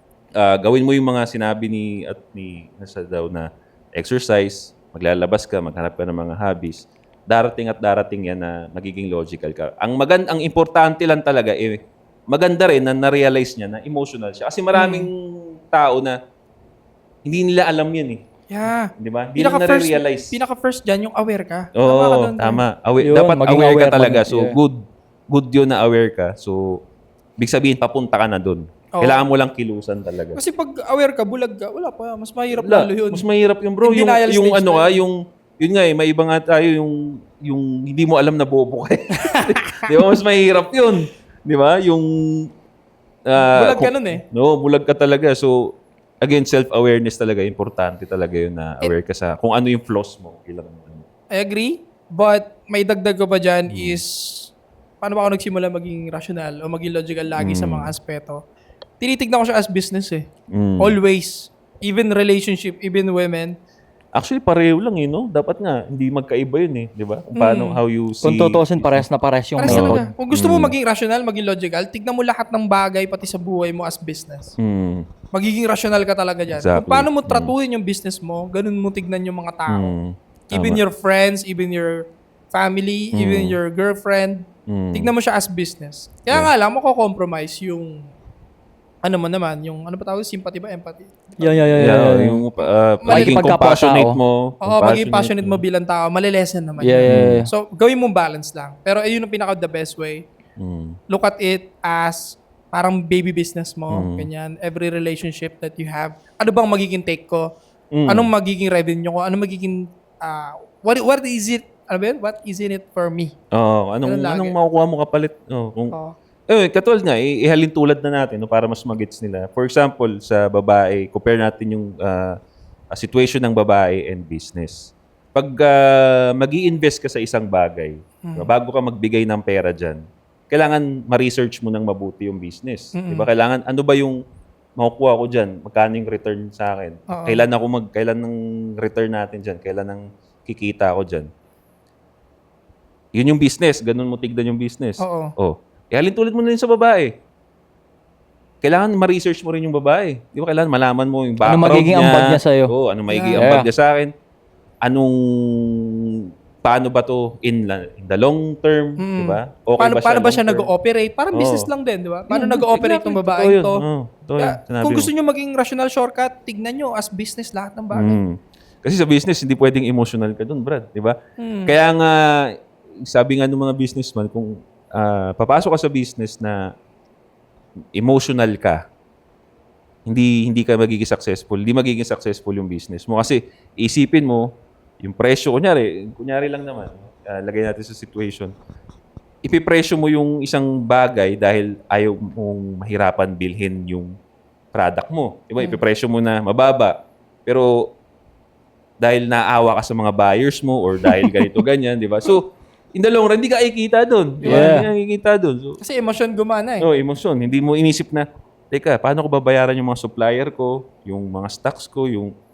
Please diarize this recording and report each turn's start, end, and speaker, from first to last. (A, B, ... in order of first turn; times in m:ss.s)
0:00.4-0:16.2 A
0:14.7-0:15.1 B
0:17.2-0:18.2 A
0:18.5-0:22.6 B
0:19.0-0:20.4 A
0:21.7-0:26.8 A
0:23.0-0:24.6 C
0:27.4-0:30.4 A
0:28.9-0:29.2 B
0:30.3-0:33.2 B
0:32.5-0:42.5 A
0:33.8-0:35.0 B
0:39.2-0:39.8 B
0:43.2-0:51.0 A
0:43.4-0:44.2 B
0:51.3-0:58.4 B
0:53.7-0:54.0 A
0:57.4-0:57.9 A
0:59.0-1:00.2 B
1:00.5-1:01.0 A
1:00.8-1:03.5 B
1:04.2-1:09.0 A
1:07.4-1:07.8 B
1:08.2-1:10.1 C
1:09.6-1:14.6 B
1:09.6-1:10.7 A
1:14.6-1:15.0 A
1:15.3-1:19.9 B
1:16.5-1:17.5 A
1:19.7-1:20.8 A
1:20.5-1:28.0 B
1:23.1-1:23.6 A
1:24.7-1:25.1 A
1:29.0-1:31.8 B
1:31.4-1:32.4 C
1:31.8-1:35.6 A
1:33.0-1:33.4 B
1:33.1-1:34.2 C
1:34.6-1:40.2 B
1:36.8-1:37.5 C
1:37.1-1:37.4 A
1:40.6-1:41.0 A
1:41.1-1:47.5 B
1:43.9-1:44.3 A
1:47.9-1:48.3 A
1:48.1-1:53.4 B
1:53.5-1:55.9 A
1:54.0-1:54.6 B
1:56.5-2:02.4 A
2:02.9-2:14.2 A
2:08.2-2:08.5 B
2:12.9-2:13.3 B
2:14.8-2:21.3 A
2:17.1-2:17.4 B
2:23.1-2:27.1 A
2:25.0-2:25.3 B
2:28.6-2:34.1 A
2:31.4-2:32.7 C
2:33.1-2:33.4 B
2:33.4-2:33.7 C
2:34.8-2:40.7 A
2:39.0-2:43.8 B
2:41.3-2:41.7 A
2:42.3-2:45.1 A
2:44.4-2:48.2 B
2:47.9-2:52.4 A
2:51.4-2:51.8 B
2:53.0-2:56.7 A
2:58.0-2:58.8 A
3:00.1-3:08.5 A
3:09.4-3:14.1 A
3:14.7-3:17.8 A
3:19.0-3:25.8 A
3:24.4-3:24.8 B
3:24.4-3:24.9 C
3:25.8-3:26.8 B
3:26.8-3:32.3 A